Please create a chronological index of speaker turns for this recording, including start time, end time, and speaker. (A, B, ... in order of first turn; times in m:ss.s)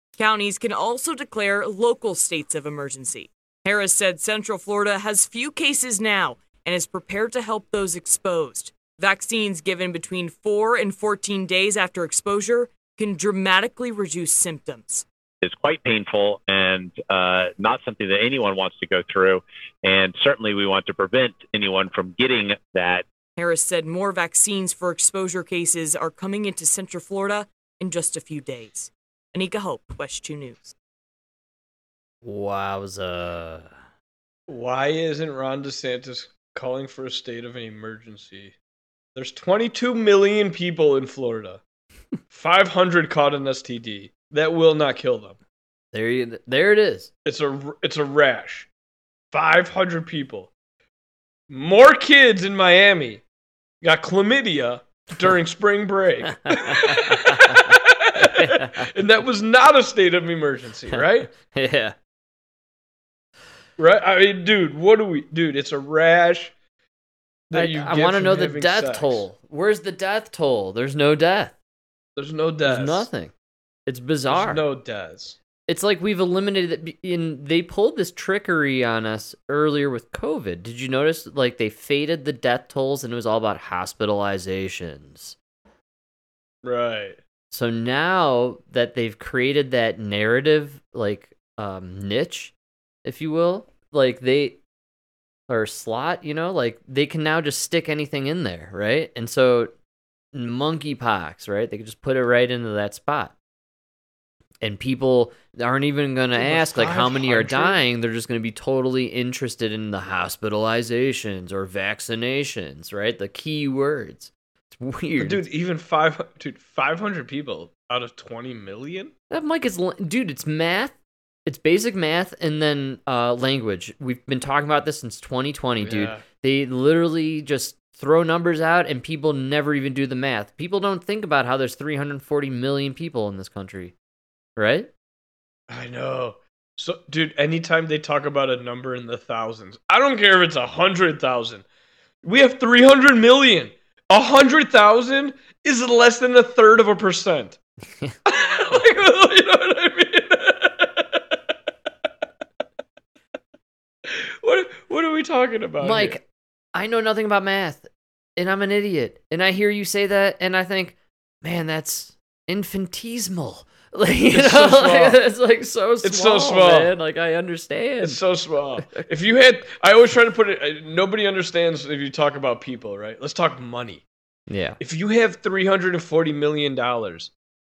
0:00.2-0:15.0 A
0:15.4-0:23.0 B
0:23.4-0:30.8 A
0:32.2-0:33.8 C
0:34.5-0:38.6 D
0:39.2-0:41.6 D
0:42.3-0:45.4 D
0:45.9-0:47.1 C
0:47.2-0:48.7 D
0:49.3-0:50.5 D
0:51.5-0:53.2 D
0:53.8-1:01.3 D
0:56.5-0:57.6 C
0:58.2-0:58.8 C
1:00.9-1:02.0 C
1:03.8-1:06.5 D
1:07.5-1:09.2 D
1:07.5-1:11.5 C
1:12.2-1:13.1 D
1:12.7-1:13.3 C
1:13.9-1:14.6 C
1:14.3-1:15.4 D
1:15.7-1:25.4 C
1:26.6-1:27.2 D
1:27.5-1:32.5 C
1:33.0-1:34.6 C
1:35.5-1:39.7 C
1:40.3-1:43.3 C
1:44.6-1:55.4 C
1:46.4-1:47.8 D
1:55.2-1:59.1 D
1:59.3-2:13.9 C
2:05.8-2:06.2 D
2:14.6-2:14.9 C
2:15.7-2:21.6 D
2:22.2-2:27.6 D
2:28.3-2:31.2 D
2:34.1-2:36.2 D
2:35.8-2:48.2 C
2:44.3-2:45.2 D
2:46.0-2:46.9 D
2:48.0-2:54.0 D
2:48.8-2:49.1 C
2:54.5-2:54.8 C
2:54.8-2:57.3 D